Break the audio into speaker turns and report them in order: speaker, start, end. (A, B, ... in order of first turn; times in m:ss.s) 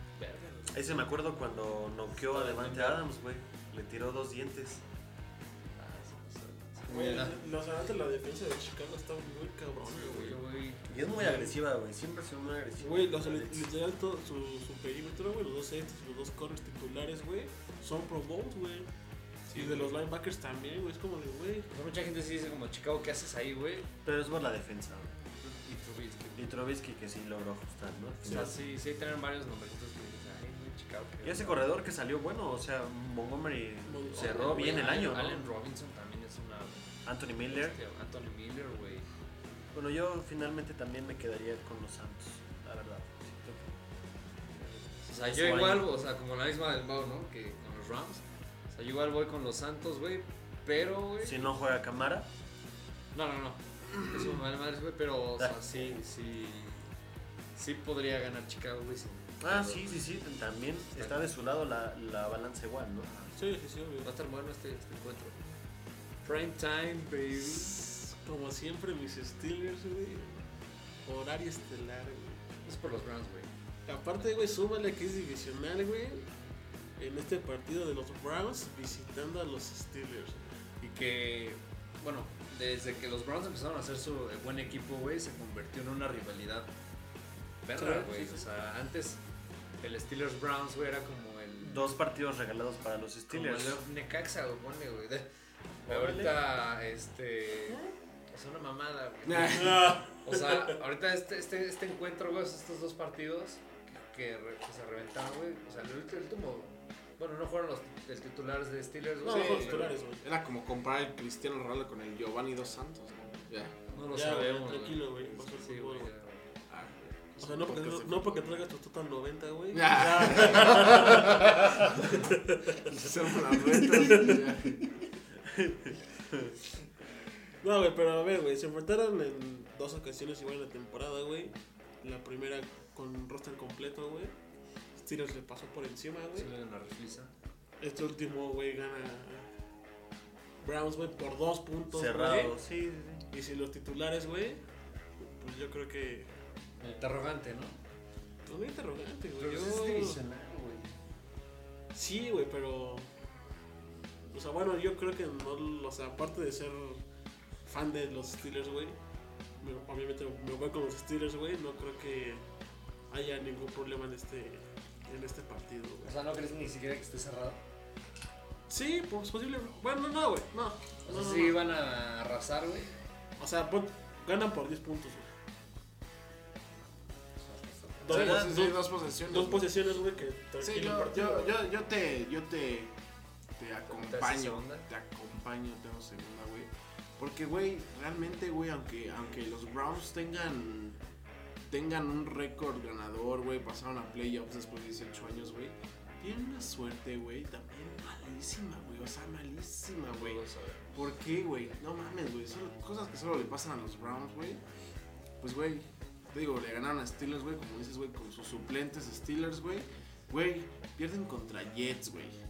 0:00.2-0:00.8 A
0:00.7-0:04.8 B
0:02.2-0:03.0 A
0:05.8-0:07.4 A
0:06.9-0:10.4 C
0:09.8-0:10.8 A
0:10.9-0:13.7 B
0:11.2-0:11.5 C
0:12.8-0:18.9 C
0:19.5-0:20.0 A
0:19.5-0:21.7 C
0:21.7-0:23.9 A
0:24.0-0:25.1 B
0:25.4-0:26.4 A
0:26.4-0:28.6 B
0:28.3-0:31.6 A
0:31.2-0:35.4 B
0:33.9-0:35.4 C
0:34.1-0:39.1 A
0:37.0-0:37.8 B
0:39.7-0:43.8 B
0:44.6-0:51.6 A
0:45.1-0:46.0 B
0:51.2-0:52.3 B
0:53.1-0:56.9 A
0:55.4-0:56.0 B
0:57.6-1:00.0 A
0:59.4-1:03.1 B
1:00.9-1:01.2 A
1:03.0-1:03.4 A
1:03.4-1:04.1 C
1:04.0-1:05.4 A
1:06.2-1:07.8 A
1:07.5-1:10.4 C
1:11.0-1:12.4 C
1:12.6-1:13.5 A
1:13.9-1:16.3 C
1:17.0-1:20.5 C
1:20.8-1:26.7 A
1:27.6-1:29.2 A
1:27.8-1:28.4 C
1:29.8-1:31.9 A
1:31.6-1:33.8 B
1:33.3-1:35.3 A
1:35.9-1:49.9 A
1:35.9-1:36.3 B
1:39.2-1:40.0 D
1:39.6-1:40.8 C
1:49.2-1:50.2 C
1:49.3-1:53.8 D
1:53.9-1:56.5 A
1:54.1-1:56.1 C
1:56.7-1:58.4 D
1:57.4-2:02.8 C
1:59.7-2:02.2 D
2:02.8-2:04.8 D
2:03.8-2:04.4 C
2:05.5-2:05.8 C
2:07.6-2:14.3 C
2:15.0-2:16.5 C
2:16.4-2:17.3 A
2:17.8-2:19.5 C
2:20.6-2:22.6 C
2:21.9-2:23.2 B
2:23.3-2:24.6 C
2:25.2-2:26.3 C
2:26.8-2:27.8 A
2:28.5-2:30.2 C
2:29.4-2:30.9 A
2:31.9-2:33.1 C
2:34.2-2:37.0 C
2:37.7-2:39.0 C
2:39.6-2:42.4 C
2:43.1-2:46.2 C
2:46.0-2:47.6 A
2:48.7-2:51.6 C
2:51.0-2:52.9 A
2:53.4-2:55.3 C
2:57.5-2:58.4 A
2:58.0-3:01.6 C
2:58.1-2:59.7 D
3:00.6-3:03.0 D
3:03.6-3:11.0 D
3:03.9-3:04.9 A
3:11.7-3:20.4 D
3:20.0-3:21.0 A
3:20.9-3:24.6 D
3:25.4-3:32.4 D